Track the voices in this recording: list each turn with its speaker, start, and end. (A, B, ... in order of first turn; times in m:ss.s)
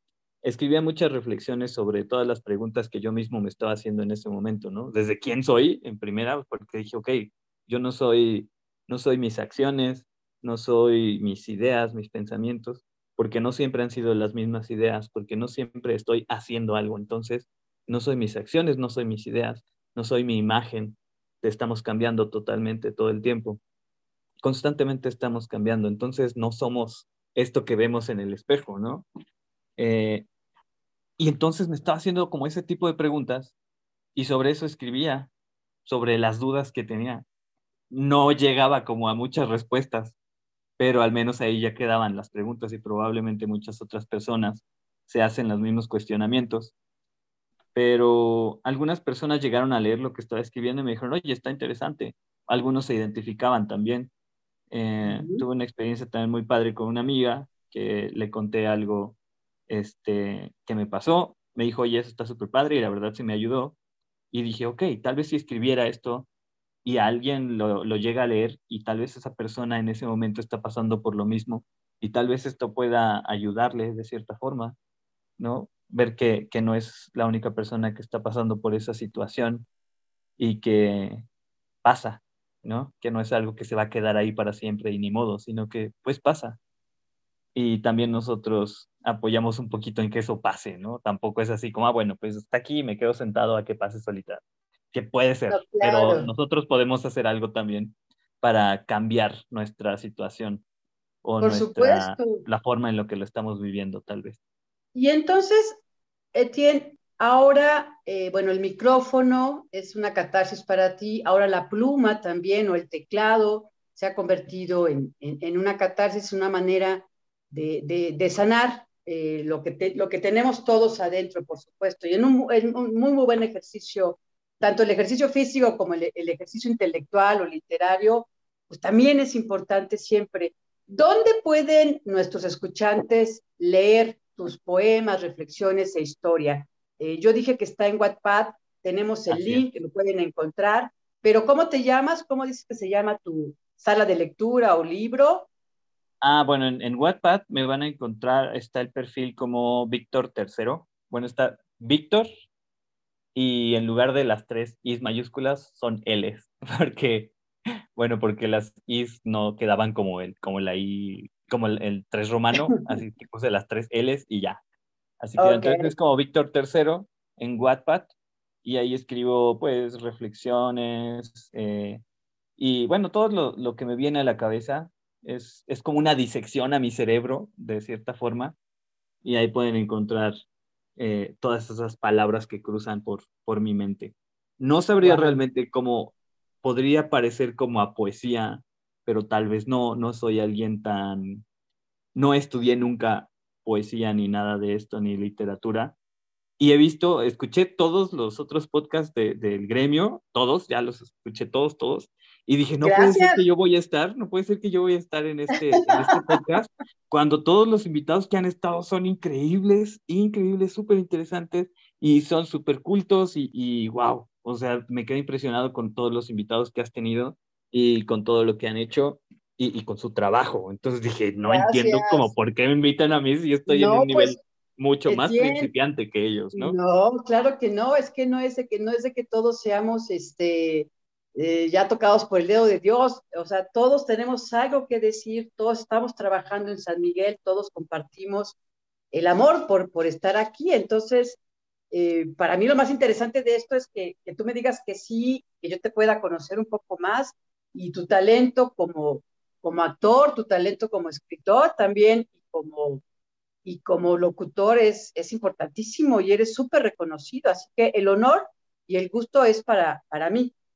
0:00.4-0:23.6 A
0:24.4-0:29.1 A
0:29.8-0:30.3 A
0:31.2-0:33.5 A
0:34.1-0:35.3 A
0:35.8-0:37.2 A
0:37.9-0:40.2 A
0:40.8-0:46.7 A
0:47.7-0:54.1 A
0:54.7-0:59.2 A
0:55.0-0:55.4 B
0:59.7-1:03.8 A
1:04.3-1:06.3 A
1:06.8-1:14.8 A
1:15.4-1:19.7 A
1:20.4-1:21.3 A
1:21.8-1:26.6 A
1:27.5-1:40.6 A
1:35.5-1:36.3 B
1:41.2-1:44.4 A
1:41.4-1:42.4 B
1:44.9-1:45.8 B
1:46.3-2:25.5 B
2:19.3-2:19.6 A
2:26.2-2:32.3 A
2:33.3-2:37.3 A
2:38.0-2:44.6 A
2:45.2-2:48.1 A
2:45.4-2:45.9 B
2:48.6-2:52.0 A
2:52.6-2:58.6 A
2:59.2-3:00.3 A
3:01.0-3:11.4 A
3:05.0-3:05.4 B
3:12.1-3:16.0 A
3:16.6-3:46.8 A
3:22.8-3:23.4 B
3:26.0-3:26.4 B
3:41.4-3:42.3 B
3:43.7-3:44.4 B
3:45.1-3:45.7 B
3:46.5-3:58.6 B
3:59.1-4:01.4 B
4:01.9-4:13.0 B
4:13.6-4:20.5 B